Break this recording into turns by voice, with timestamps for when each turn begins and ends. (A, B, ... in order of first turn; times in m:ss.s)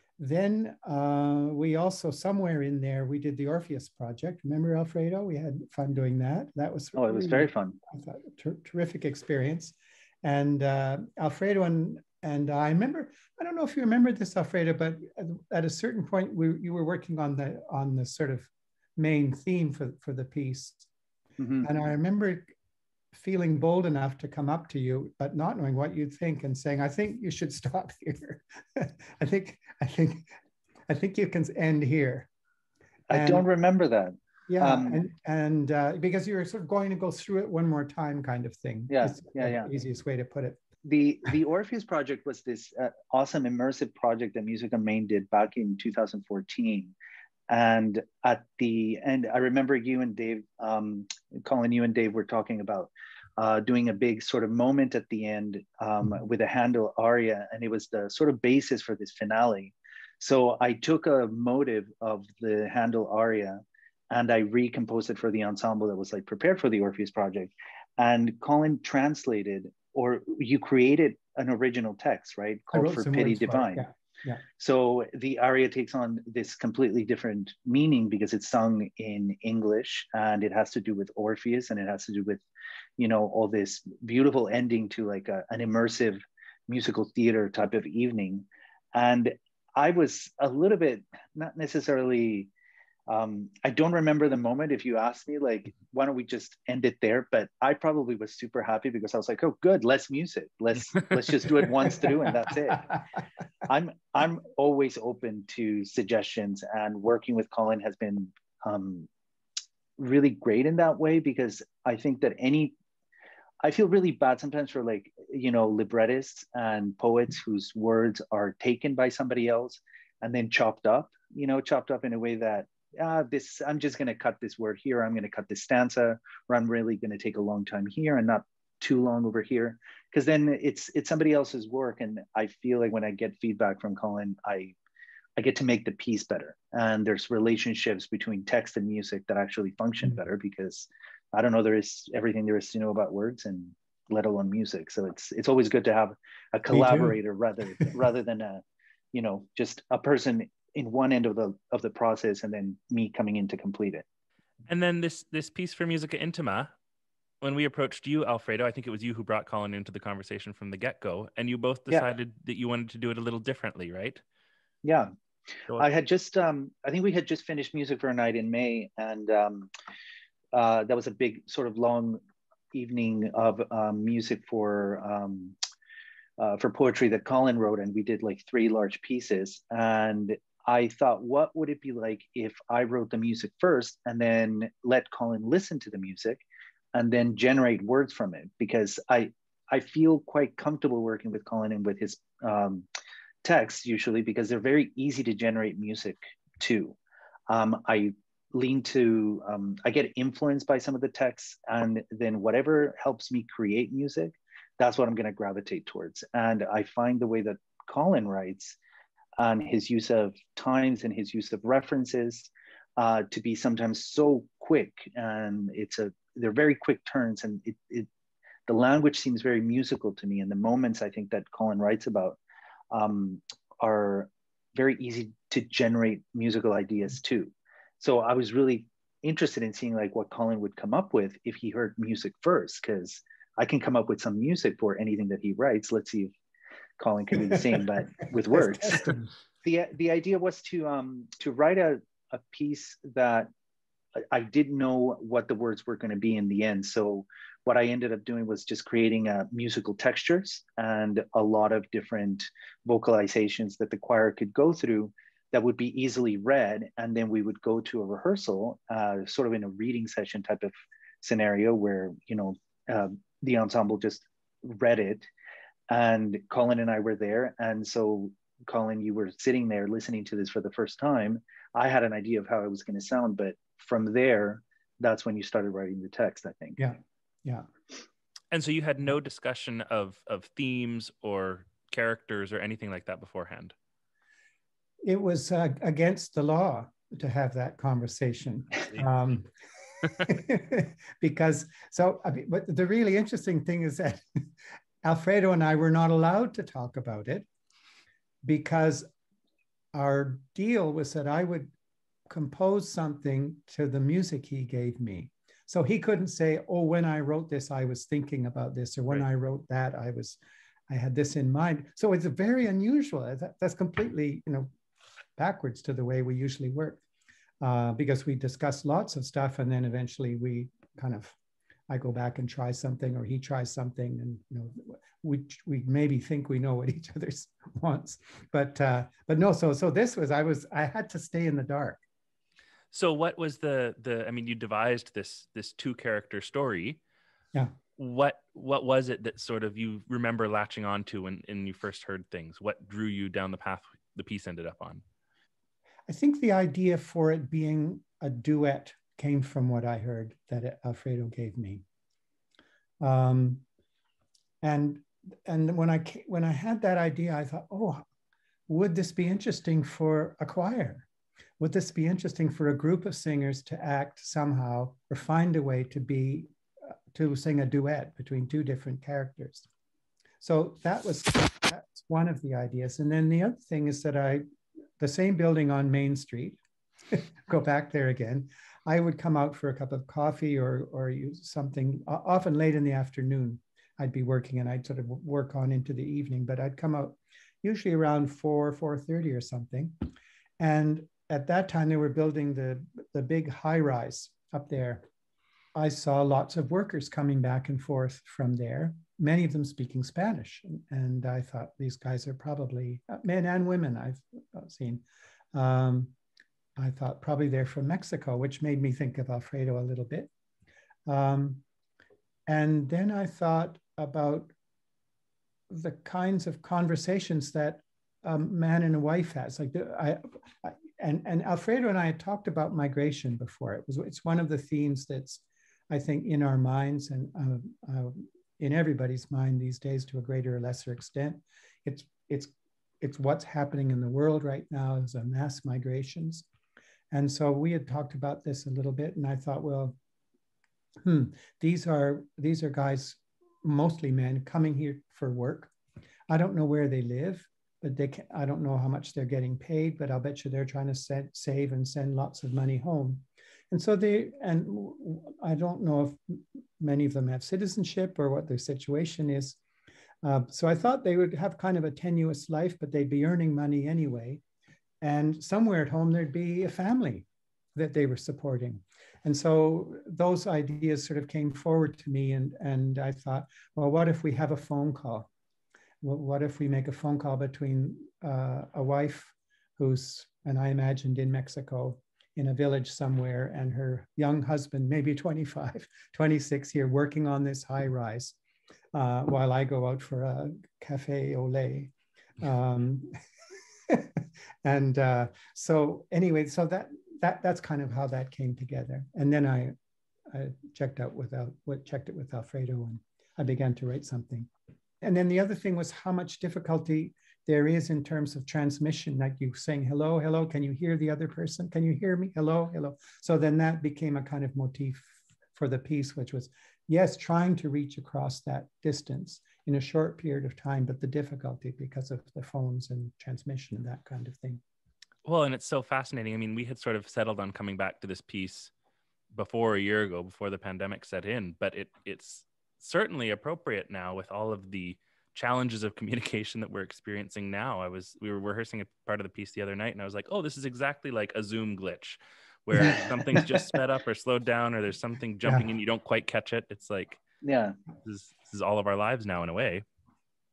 0:00.2-0:20.9 A
0:07.0-0:07.8 B
0:21.4-0:21.7 B
0:21.6-0:22.5 A
0:23.1-0:30.3 A
0:30.9-0:32.3 A
0:33.1-0:35.0 B
0:33.1-0:33.5 A
0:34.5-0:40.6 A
0:38.9-0:39.7 B
0:40.8-0:46.9 B
0:47.5-1:13.8 B
1:12.7-1:14.4 A
1:14.6-1:22.4 B
1:23.0-1:32.5 B
1:33.1-1:42.9 B
1:43.6-1:49.1 B
1:50.0-1:52.8 B
1:53.6-2:14.8 B
2:15.4-2:34.0 B
2:26.7-2:27.2 A
2:34.7-2:36.7 C
2:37.4-2:44.2 C
2:44.8-2:45.1 B
2:45.7-2:49.7 B
2:50.5-2:52.2 B
2:52.7-2:55.6 B
2:56.4-3:06.4 B
3:07.0-3:12.9 B
3:13.4-3:17.0 B
3:17.5-3:28.8 B
3:29.4-3:38.1 B
3:38.7-3:42.4 B
3:42.9-3:56.3 B
3:57.0-3:59.1 B
3:58.5-3:59.3 A
3:59.6-4:03.5 B
4:04.2-4:25.3 B
4:25.9-4:36.8 B
4:36.8-4:37.7 A
4:38.5-4:43.7 C
4:45.0-4:49.5 A
4:50.1-4:54.2 A
4:55.0-4:57.5 A
4:58.4-4:59.1 A
4:59.9-5:01.7 A
5:02.3-5:14.7 A
5:15.4-5:17.0 A
5:17.6-5:21.4 A
5:21.9-5:32.0 A
5:32.9-5:37.0 C
5:38.0-5:45.0 C
5:46.1-5:51.8 A
5:53.0-5:53.6 A
5:54.6-5:58.0 A
5:58.7-6:01.1 A
6:01.6-6:06.5 A
6:07.1-6:09.7 A
6:10.4-6:14.4 A
6:15.0-6:16.6 A
6:17.1-6:30.0 A
6:30.6-6:35.0 A
6:35.8-6:46.1 A
6:46.8-6:50.3 A
6:51.1-6:51.6 A
6:52.5-6:54.5 A
6:55.7-7:16.5 A
7:17.1-7:20.0 A
7:21.0-7:25.7 A
7:26.3-7:39.6 A
7:40.2-7:44.4 A
7:45.0-7:55.3 A
7:56.0-8:08.4 A
8:08.9-8:13.1 A
8:13.9-8:19.8 A
8:20.3-8:24.5 A
8:25.0-8:44.6 A
8:45.2-8:48.7 C
8:49.3-9:07.2 C
9:02.8-9:03.6 A
9:07.4-9:07.8 B
9:08.0-9:09.8 C